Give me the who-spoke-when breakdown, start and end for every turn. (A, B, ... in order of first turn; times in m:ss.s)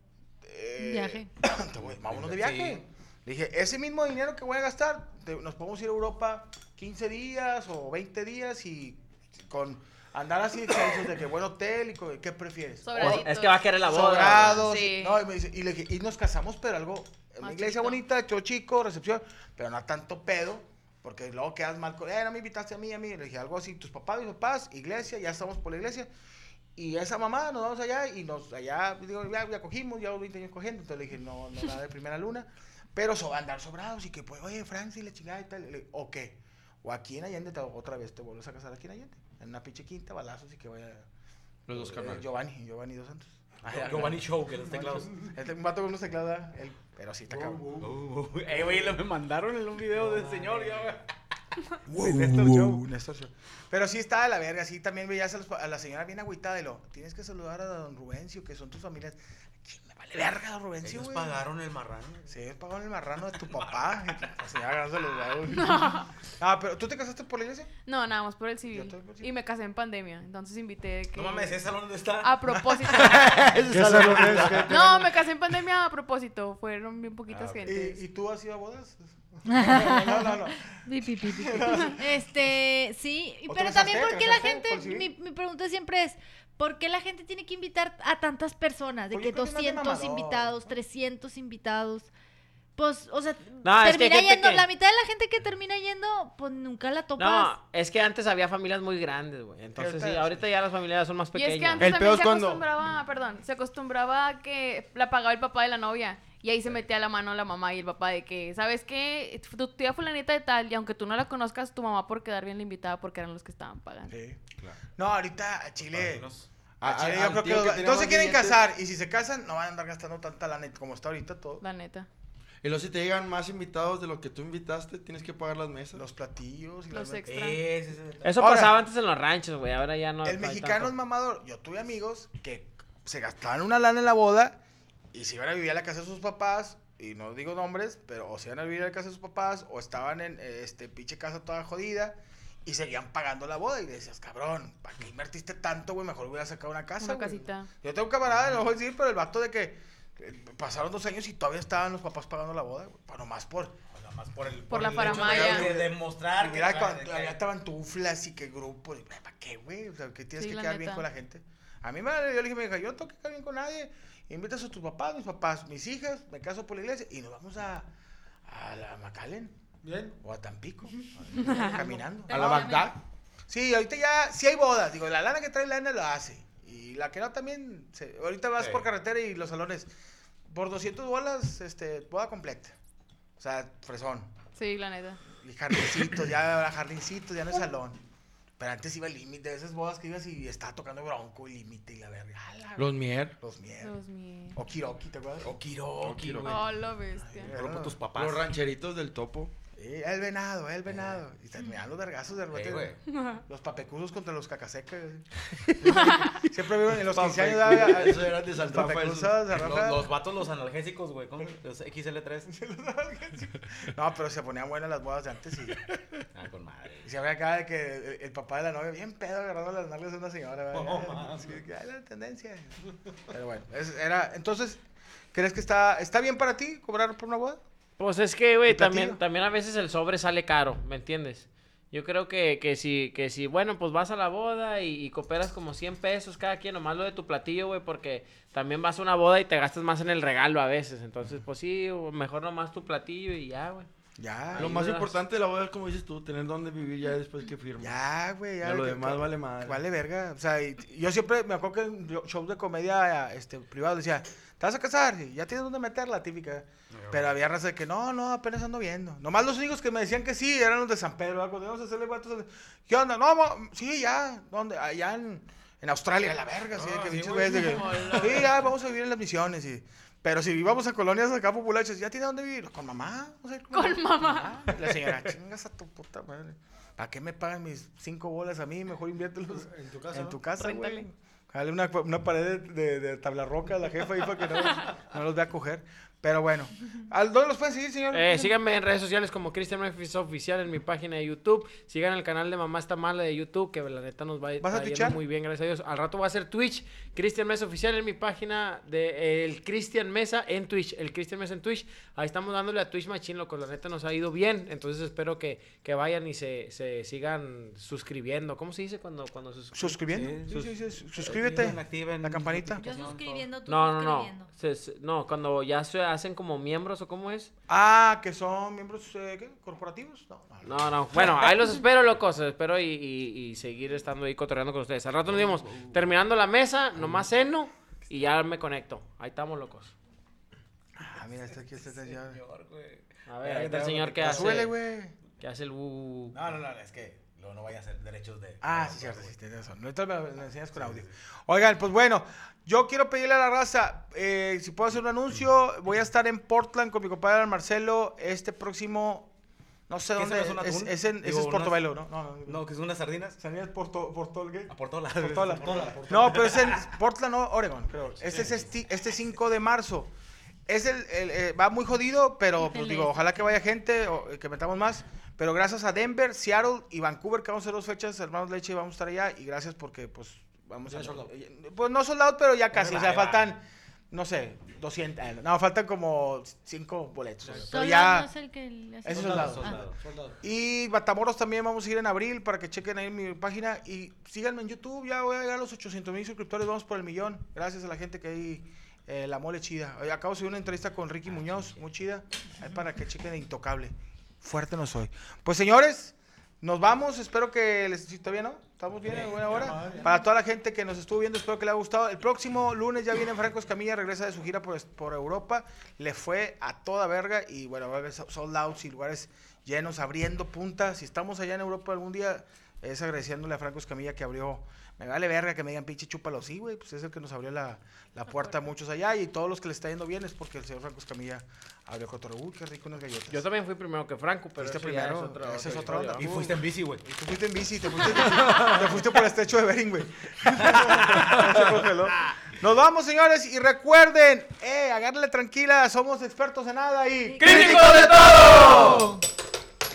0:00.4-0:13.3 A
0:00.8-0:01.3 B
0:01.8-0:02.8 C
0:12.8-0:13.7 D
0:13.0-0:14.6 E
0:13.8-0:26.1 A
0:14.4-0:15.2 D
0:17.4-0:18.0 D
0:26.8-0:41.1 A
0:41.7-0:47.7 A
0:41.7-0:42.2 C
0:43.6-0:45.2 C
0:47.3-0:47.9 F
0:47.8-0:51.0 C
0:50.1-0:50.8 F
0:51.9-1:01.4 A
0:51.9-0:52.8 C
1:00.8-1:02.3 C
1:02.3-1:07.7 A
1:03.5-1:04.3 C
1:05.5-1:06.1 D
1:07.8-1:11.6 D
1:08.7-1:09.3 A
1:11.1-1:12.6 C
1:12.2-1:13.4 D
1:12.8-1:13.2 A
1:13.0-1:14.7 G
1:13.7-1:15.1 F
1:14.6-1:18.0 D
1:17.3-1:17.7 C
1:17.6-1:22.5 A
1:19.5-1:32.1 B
1:23.5-1:25.1 A
1:29.1-1:30.7 A
1:32.8-1:37.5 B
1:33.6-1:34.7 E
1:37.2-1:41.9 E
1:39.8-1:40.4 A
1:41.3-1:54.1 D
1:41.8-1:42.6 A
1:41.9-1:42.6 G
1:54.1-1:54.4 A
1:55.0-1:56.3 A
1:55.9-1:56.5 C
1:56.8-2:01.6 A
1:56.8-1:58.6 G
2:01.6-2:02.1 D
2:02.6-2:06.0 G
2:06.0-2:07.3 A
2:06.9-2:07.6 D
2:07.3-2:08.4 C
2:08.2-2:10.9 E
2:08.4-2:08.8 A
2:10.2-2:14.6 A
2:15.1-2:33.8 A
2:27.0-2:27.7 D
2:33.9-2:37.4 C
2:34.7-2:35.7 D
2:35.0-2:47.9 A
2:40.4-2:41.0 D
2:48.5-2:49.6 A
2:49.8-2:50.2 F
2:50.2-2:59.9 A
2:51.3-2:51.8 D
2:52.3-2:52.9 B
2:52.3-2:52.9 G
3:00.5-3:02.8 A
3:03.4-3:04.3 A
3:04.6-3:05.2 D
3:05.4-3:08.0 A
3:08.6-3:13.9 A
3:12.8-3:13.3 G
3:13.8-3:14.6 D
3:14.5-3:15.6 A
3:15.4-3:16.7 C
3:16.0-3:16.6 G
3:16.5-3:17.5 D
3:17.2-3:18.0 A
3:17.5-3:18.5 C
3:18.2-3:19.5 G
3:19.8-3:23.0 A
3:22.5-3:23.0 C
3:23.1-3:23.4 D
3:23.5-3:25.3 A
3:25.8-3:30.2 A
3:25.9-3:26.4 D
3:27.0-3:29.4 G
3:29.5-3:32.5 C
3:32.5-3:35.9 A
3:36.4-3:37.1 C
3:37.0-3:44.8 A
3:40.7-3:41.6 C
3:45.3-3:47.6 A
3:48.0-4:03.9 E
3:48.7-3:49.2 A
4:04.2-4:04.8 A
4:04.5-4:05.2 E
4:04.6-4:07.9 G
4:07.8-4:48.5 A
4:08.6-4:09.8 G
4:16.9-4:17.4 C
4:26.8-4:28.6 C
4:27.6-4:28.3 D
4:33.7-4:34.8 D
4:39.5-4:40.4 F
4:40.6-4:41.0 D
4:48.1-5:10.0 E
4:54.6-4:55.2 A
5:09.7-5:12.8 A
5:10.1-5:13.5 C
5:12.8-5:14.5 B
5:13.7-5:17.5 E
5:17.7-5:20.8 A
5:20.6-5:29.9 E
5:25.4-5:25.9 C
5:31.0-5:32.4 A
5:32.1-5:34.6 C
5:33.3-5:34.7 E
5:34.2-5:35.2 A
5:35.4-5:36.4 E
5:36.3-5:39.3 C
5:38.6-5:49.3 A
5:40.8-5:41.1 C
5:49.9-5:52.6 A
5:50.2-5:51.9 C
5:52.4-5:53.4 C
5:53.4-6:00.1 A
5:54.7-5:56.8 C
5:55.6-5:56.4 F
5:58.2-5:58.7 C
6:00.7-6:18.3 A
6:02.6-6:03.2 B
6:10.9-6:11.3 F
6:12.7-6:13.5 C
6:17.7-6:19.8 B
6:19.0-6:19.8 A
6:19.1-6:20.0 C
6:19.2-6:20.4 F
6:20.4-7:03.4 A
6:39.1-6:39.5 C
6:39.5-6:40.1 F
7:03.3-7:06.3 E
7:04.6-7:18.6 A
7:06.2-7:07.0 C
7:10.8-7:11.5 C
7:17.3-7:17.9 B
7:17.4-7:19.1 G
7:17.5-7:19.0 C